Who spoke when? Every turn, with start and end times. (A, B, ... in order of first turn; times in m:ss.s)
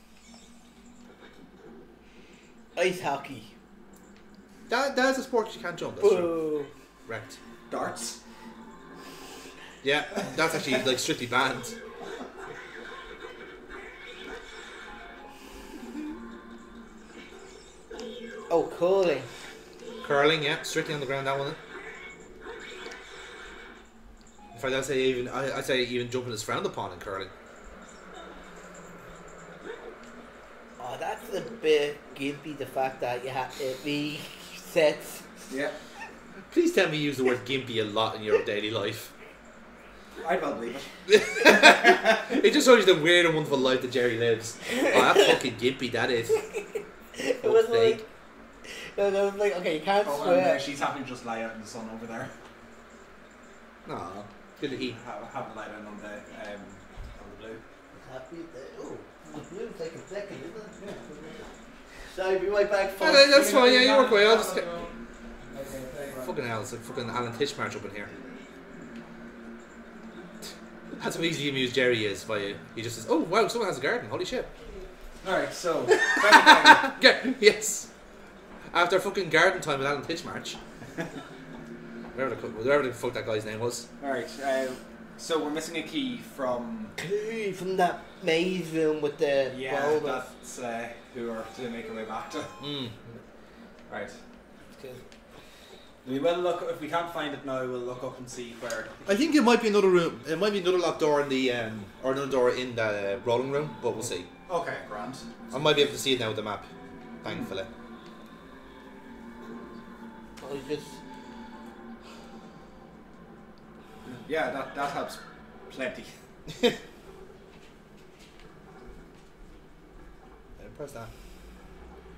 0:02.7-0:03.5 A
0:04.7-0:06.5 B
0:06.0-0:06.7 A
0:07.0-0:07.4 B
0:07.7-0:08.2 C
0:09.8-0:11.8 B
0:18.5-0:19.3 A
0:20.0-0:21.6 B
0:24.5-0:27.3 B
0:30.8-0:35.5 A
0:35.5-0:35.8 C
0:36.5-0:39.1 B
0:40.2-0:40.9 C
0:41.1-0:46.4 B
0:44.8-0:45.3 A
0:46.4-0:48.0 A
0:47.4-0:48.0 B
0:48.6-0:50.6 A
0:50.0-0:52.3 C
0:53.8-0:55.0 B
0:54.7-0:57.6 C
0:57.9-1:01.4 A
1:02.1-1:03.4 A
1:03.0-1:04.8 B
1:03.3-1:04.9 C
1:05.5-1:06.4 C
1:06.2-1:08.1 B
1:11.0-1:14.5 B
1:15.2-1:16.9 C
1:15.9-1:17.9 B
1:18.7-1:20.6 B
1:22.1-1:23.9 B
1:24.0-1:26.9 C
1:27.0-1:30.3 A
1:29.5-1:32.5 C
1:32.6-1:33.1 B
1:33.9-1:34.2 C
1:34.8-1:35.0 A
1:36.0-1:39.3 C
1:39.1-1:44.3 B
1:44.0-1:45.9 C
1:45.5-1:46.7 B
1:47.2-1:47.7 B
1:50.4-1:51.0 A
1:54.0-1:56.1 C
2:00.6-2:01.1 B